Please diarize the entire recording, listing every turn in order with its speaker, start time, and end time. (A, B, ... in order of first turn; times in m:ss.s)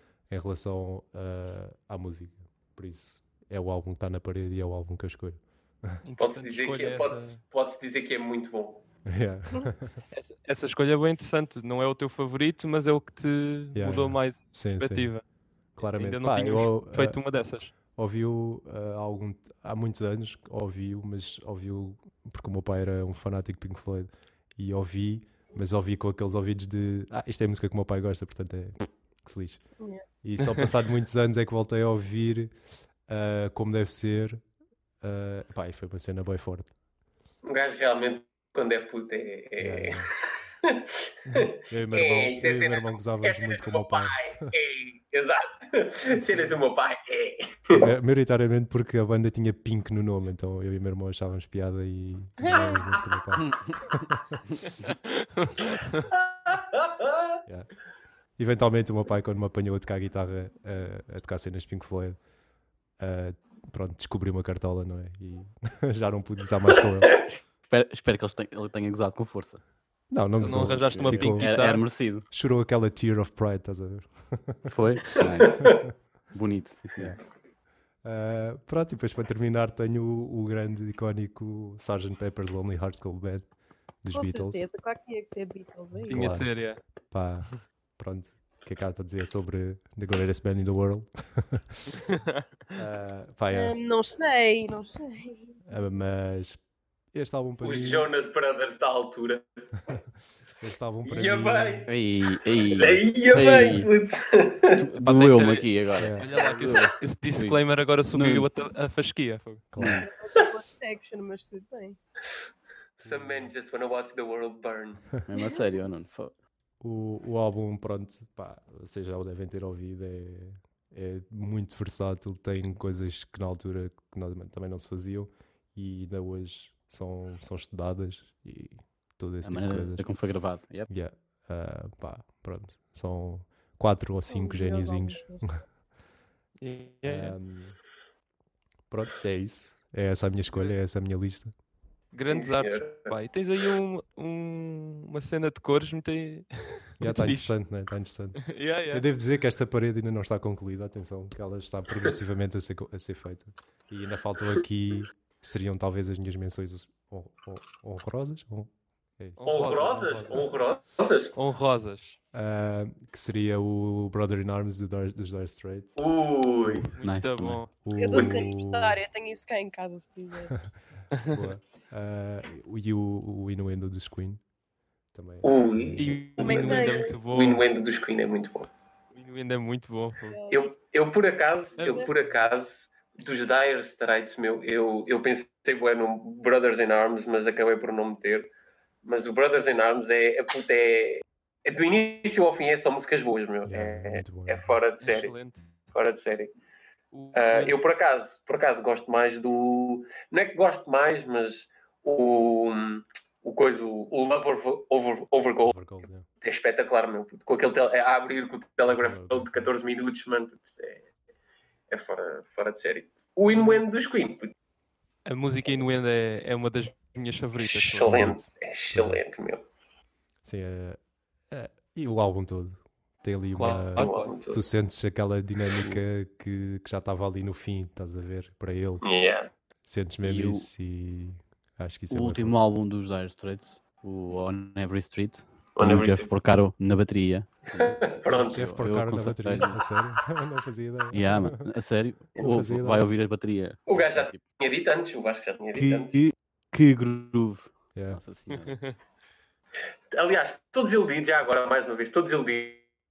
0:00.3-0:06.0 A
0:06.0-0:07.4 B
0:06.2-0:08.8 C
0:09.1-0:10.0 A
0:10.1-0:15.2 B
0:13.7-0:15.1 A
0:15.8-0:17.2 A
0:15.9-0:17.7 B
0:18.0-0:29.6 A
0:30.2-0:32.5 A
0:33.1-0:34.4 A
0:35.0-0:36.7 A
0:37.4-0:40.1 C
0:39.6-0:40.1 A
0:40.6-0:47.8 C
0:41.3-0:44.5 A
0:47.7-0:54.4 A
0:53.4-0:53.9 D
0:54.8-0:56.1 B
0:56.4-0:57.4 C
0:58.4-1:02.2 A
1:03.0-1:07.2 A
1:07.7-1:09.6 D
1:10.1-1:11.6 A
1:10.4-1:11.8 B
1:10.4-1:12.3 D
1:12.3-1:14.7 A
1:14.7-1:15.7 D
1:15.4-1:15.8 C
1:16.3-1:17.2 D
1:18.0-1:23.5 A
1:24.0-1:24.7 A
1:24.1-1:26.3 E
1:26.0-1:26.5 A
1:26.1-1:26.8 B
1:27.1-1:32.0 A
1:32.8-1:33.8 A
1:33.5-1:35.6 E
1:35.7-1:36.6 A
1:37.1-1:38.1 A
1:37.6-1:39.5 C
1:40.6-1:41.9 A
1:41.0-1:41.9 C
1:41.9-1:43.9 D
1:42.5-1:44.8 C
1:44.8-1:48.5 D
1:45.0-1:49.7 B
1:46.0-1:46.3 A
1:46.4-1:46.8 C
1:49.7-1:50.1 A
1:49.8-1:50.0 D
1:50.0-1:52.0 E
1:53.0-1:55.2 C
1:53.0-1:53.5 A
1:55.3-1:56.3 D
1:55.3-1:55.7 E
1:56.8-2:10.1 A
2:09.4-2:10.9 D
2:10.9-2:15.6 A
2:14.3-2:15.6 E
2:16.6-2:17.4 B
2:17.0-2:17.8 A
2:18.9-2:21.5 A
2:20.5-2:20.8 B
2:22.1-2:27.5 B
2:22.3-2:23.1 C
2:27.0-2:39.8 A
2:28.4-2:29.0 B
2:39.4-2:40.5 B
2:39.5-2:41.4 C
2:41.4-2:42.2 B
2:42.3-2:46.0 A
2:46.0-2:46.9 C
2:46.7-2:47.6 D
2:47.0-2:47.7 B
2:47.8-2:49.0 A
2:48.0-2:50.6 E
2:48.1-2:48.4 C
2:51.2-2:51.4 B
2:51.3-2:54.4 A
2:55.1-2:56.1 A
2:55.4-2:58.7 C
2:56.0-2:57.7 B
2:56.4-2:57.2 E
2:59.2-3:00.4 B
3:00.3-3:00.8 E
3:00.5-3:08.5 C
3:01.8-3:02.3 B
3:09.0-3:15.3 C
3:13.6-3:14.8 A
3:15.0-3:15.8 B
3:15.9-3:16.5 C
3:17.1-3:17.8 B
3:17.3-3:25.8 C
3:25.7-3:26.3 A
3:26.4-3:31.0 C
3:28.9-3:29.7 A
3:31.9-3:34.5 C
3:33.5-3:33.8 B
3:35.2-3:38.3 B
3:37.6-3:39.6 C
3:38.1-3:39.2 A
3:40.4-3:49.0 A
3:43.5-3:44.3 B
3:44.0-3:44.6 C
3:49.0-3:49.5 C
3:49.8-3:52.6 A
3:50.2-3:50.7 D
3:52.1-3:59.8 D
3:55.8-3:56.3 C
3:57.7-3:58.6 C
3:58.5-4:01.6 A
4:01.1-4:04.4 D
4:02.4-4:03.1 A
4:03.9-4:06.2 C
4:05.7-4:06.0 A
4:05.9-4:08.8 D
4:08.0-4:08.2 A
4:08.6-4:09.0 B
4:10.1-4:12.9 C